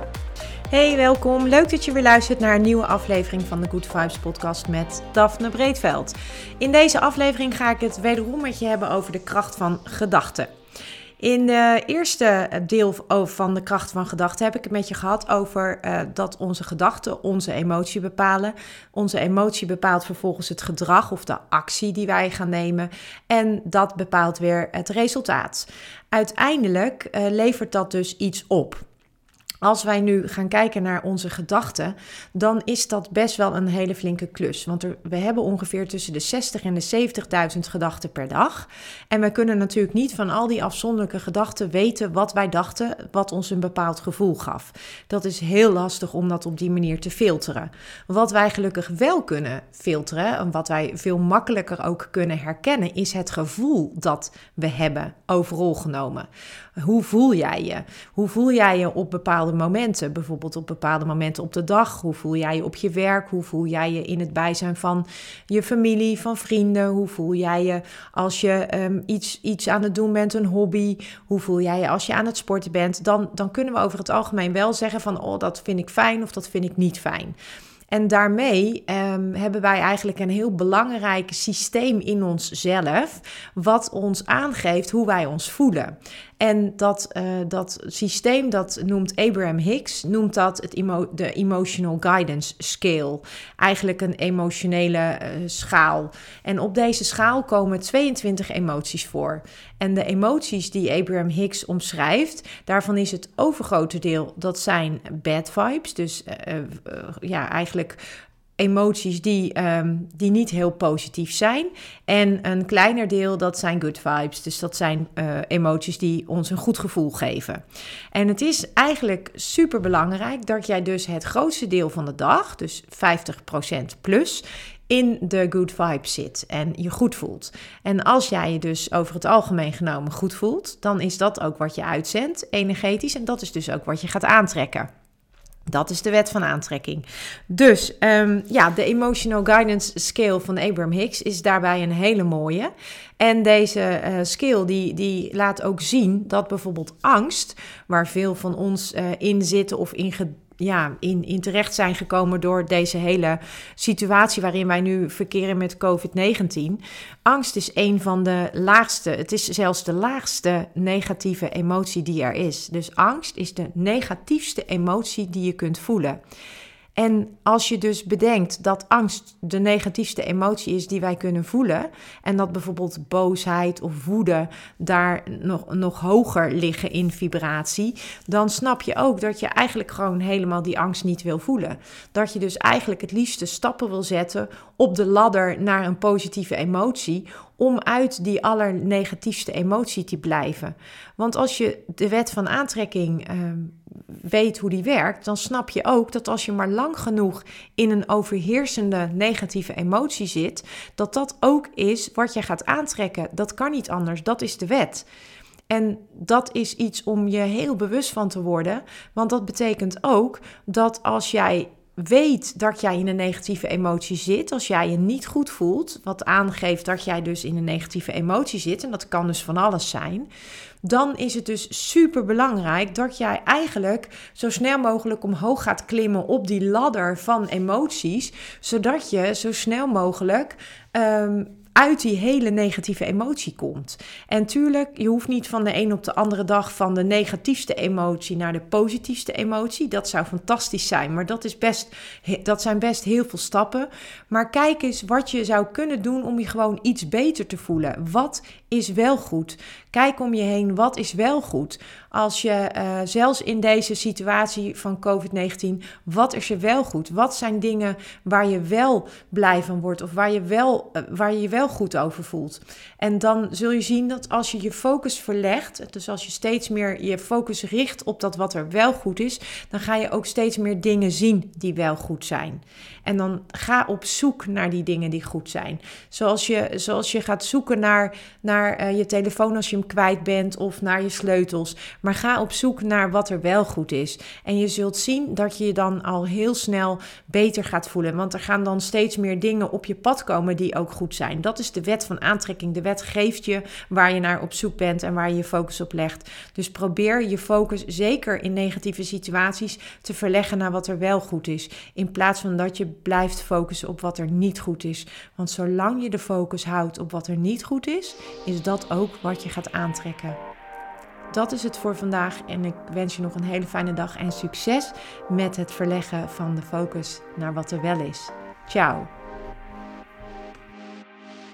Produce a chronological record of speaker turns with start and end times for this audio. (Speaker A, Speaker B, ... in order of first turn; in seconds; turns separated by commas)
Speaker A: 0.7-10.5, Speaker A: 11.2-28.8, Speaker A: 29.6-77.4, Speaker A: 77.9-108.0, Speaker A: 108.6-134.9, Speaker A: 135.7-166.2, Speaker A: 167.0-205.1, Speaker A: 205.7-220.3, Speaker A: 220.8-310.4, Speaker A: 311.3-319.1